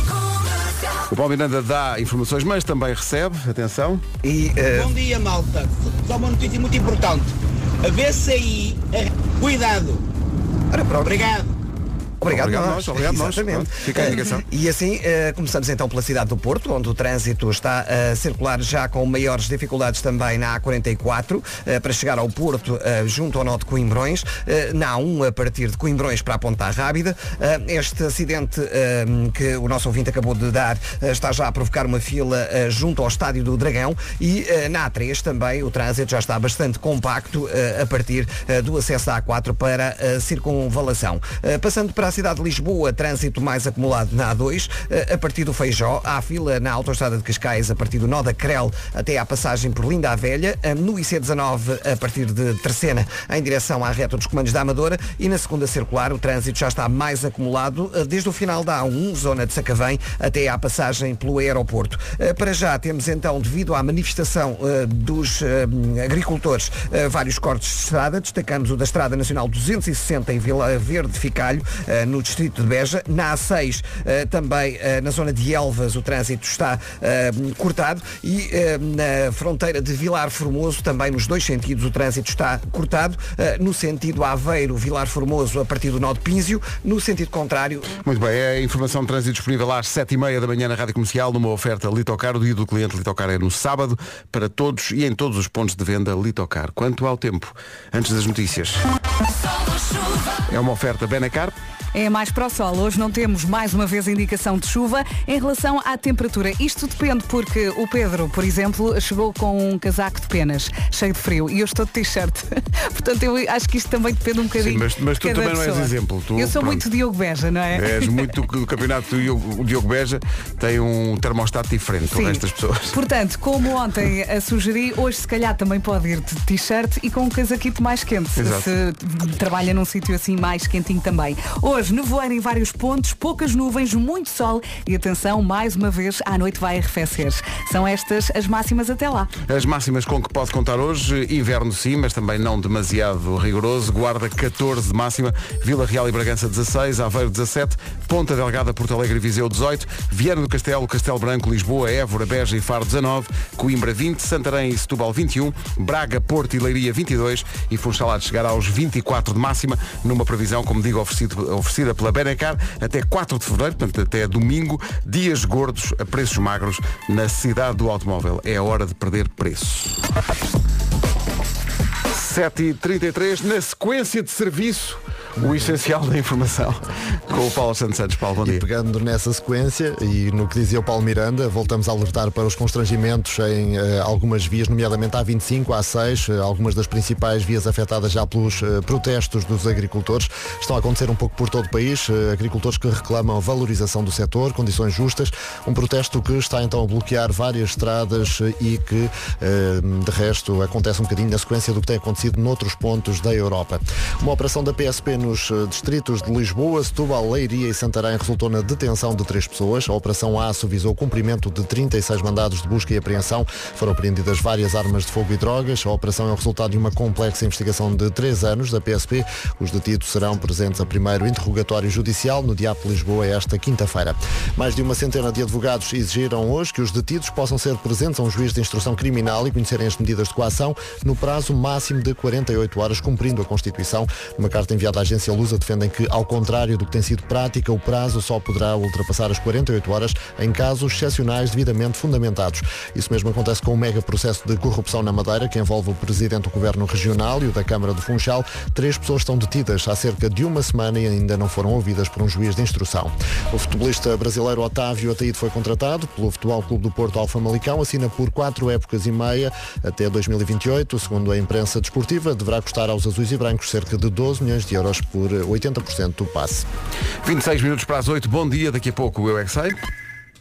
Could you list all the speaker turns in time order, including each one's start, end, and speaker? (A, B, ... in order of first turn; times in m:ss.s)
0:01.1-0:04.0 A
0:04.2-0:04.9 B
0:04.7-0:10.0 C
0:10.7-0:11.2 B
0:11.0-0:11.5 C
0:12.2-1:27.9 B
0:12.2-0:14.4 A
0:14.1-0:14.4 D
1:28.0-1:38.8 A
1:40.4-1:41.5 A
1:41.9-1:58.3 D
1:54.6-1:56.8 A
1:57.7-2:03.0 A
2:02.1-2:19.3 D
2:08.4-2:08.7 A
2:19.4-2:50.0 A
2:52.1-2:58.6 A
2:58.4-4:26.6 E
4:27.2-4:29.8 A